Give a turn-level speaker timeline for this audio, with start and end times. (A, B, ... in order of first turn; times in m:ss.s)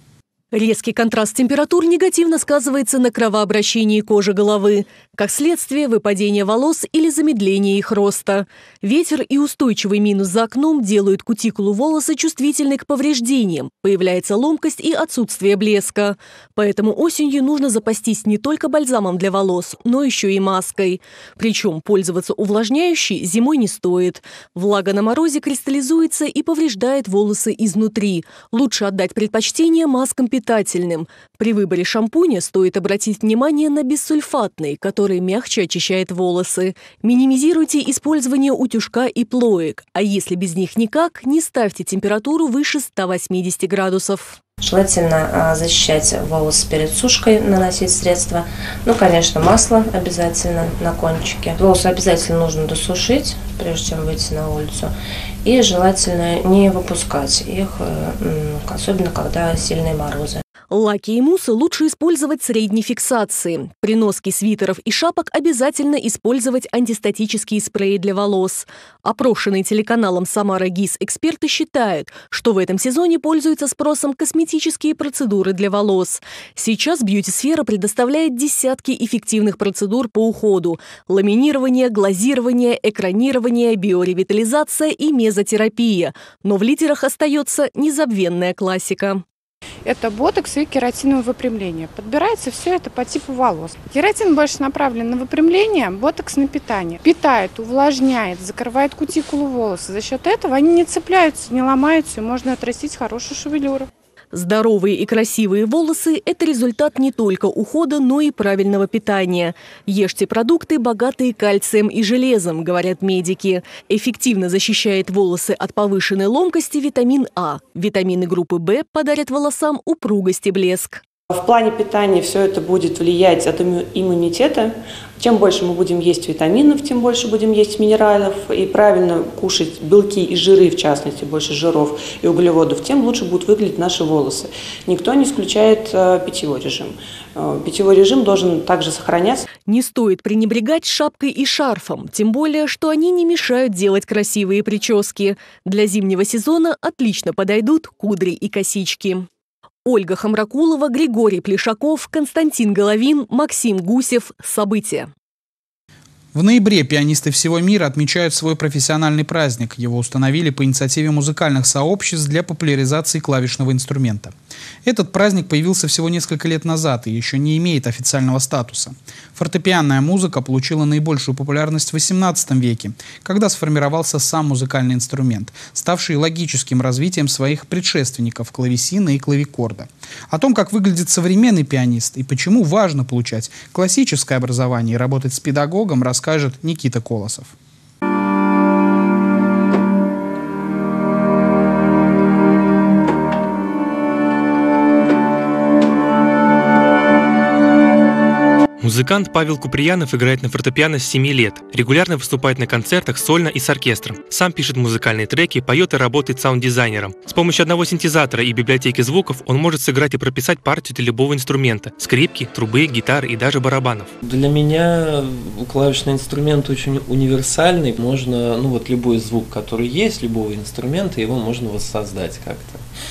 0:00.5-0:44.4 A
0:44.6-1:00.4 B
1:00.7-1:29.2 A
1:29.8-1:43.9 C
1:44.3-2:01.0 A
2:01.3-2:19.4 D
2:19.7-2:29.3 A
2:29.9-2:35.1 A
2:36.3-3:07.5 E
3:18.8-3:34.1 F
3:34.2-3:42.9 G